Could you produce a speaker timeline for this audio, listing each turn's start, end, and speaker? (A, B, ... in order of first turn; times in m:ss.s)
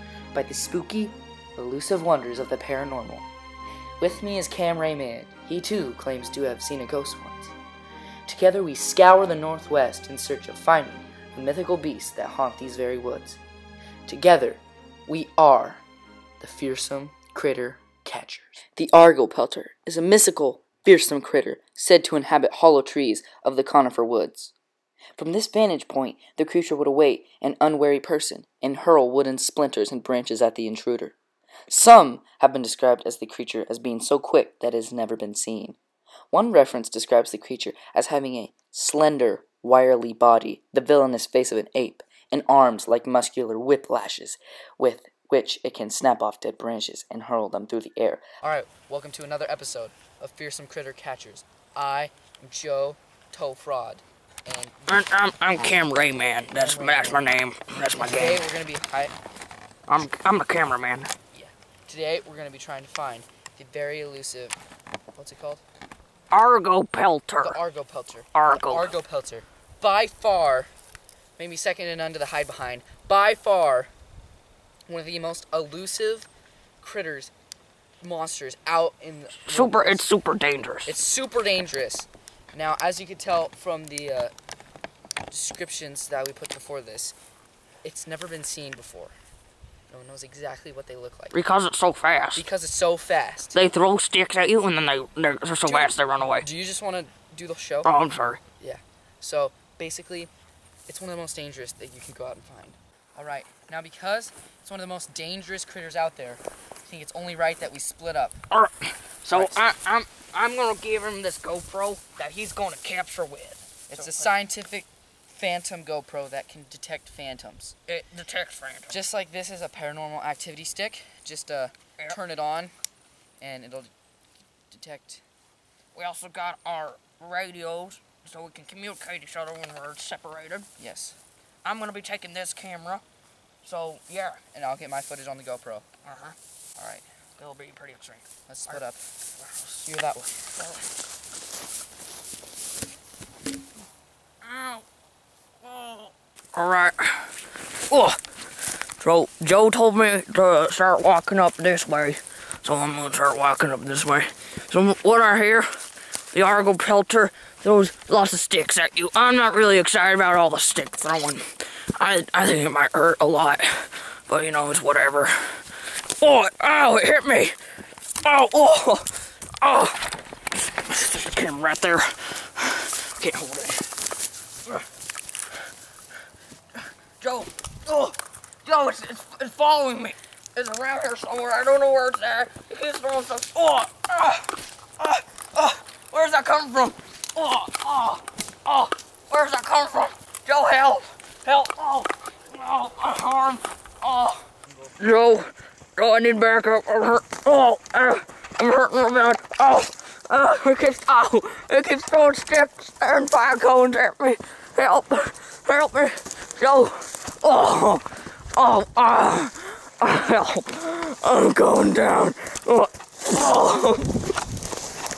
0:00.3-0:03.3 A
0:04.0-0:07.5 A
0:08.2-0:13.4 A
0:14.1-0:15.8 A
0:16.4-0:24.5 A
0:25.2-0:31.1 A
0:31.7-0:35.8 A
0:36.3-0:54.9 A
0:54.9-0:58.4 B
0:56.5-0:57.3 A
0:58.0-0:59.1 A
0:59.9-1:01.1 B
1:01.3-1:04.6 A
1:05.1-1:05.6 A
1:06.3-1:07.6 B
1:07.4-1:10.7 A
1:08.3-1:09.0 B
1:11.4-1:13.9 A
1:14.9-1:16.3 A
1:16.8-1:17.3 A
1:18.0-1:20.0 A
1:19.4-1:20.9 B
1:20.8-1:24.3 A
1:25.3-1:27.1 A
1:27.8-1:29.1 A
1:29.9-1:31.4 A
1:31.3-1:32.4 B
1:32.3-1:33.6 A
1:33.5-1:36.4 B
1:35.6-1:37.9 A
1:37.8-1:38.4 B
1:38.6-1:40.3 A
1:40.9-1:48.4 A
1:48.5-1:54.3 B
1:49.3-1:49.6 A
1:53.9-1:57.8 A
1:57.9-1:59.0 B
1:58.9-2:02.7 A
2:03.4-2:03.9 A
2:04.7-2:05.2 A
2:05.9-2:10.7 B
2:10.8-2:11.2 A
2:11.6-2:13.0 B
2:13.6-2:14.4 B
2:14.5-2:15.9 A
2:16.0-2:16.4 B
2:16.8-2:17.0 A
2:17.4-2:18.8 B
2:18.5-2:19.0 A
2:19.4-2:19.9 B
2:19.8-2:20.6 A
2:20.6-2:20.9 B
2:24.4-2:24.8 B
2:25.6-2:28.2 B
2:29.0-2:35.7 B
2:36.3-2:41.4 B
2:42.0-2:47.6 B
2:48.2-2:54.0 B
2:56.8-3:14.4 B
3:14.6-3:15.0 A
3:15.0-3:34.2 B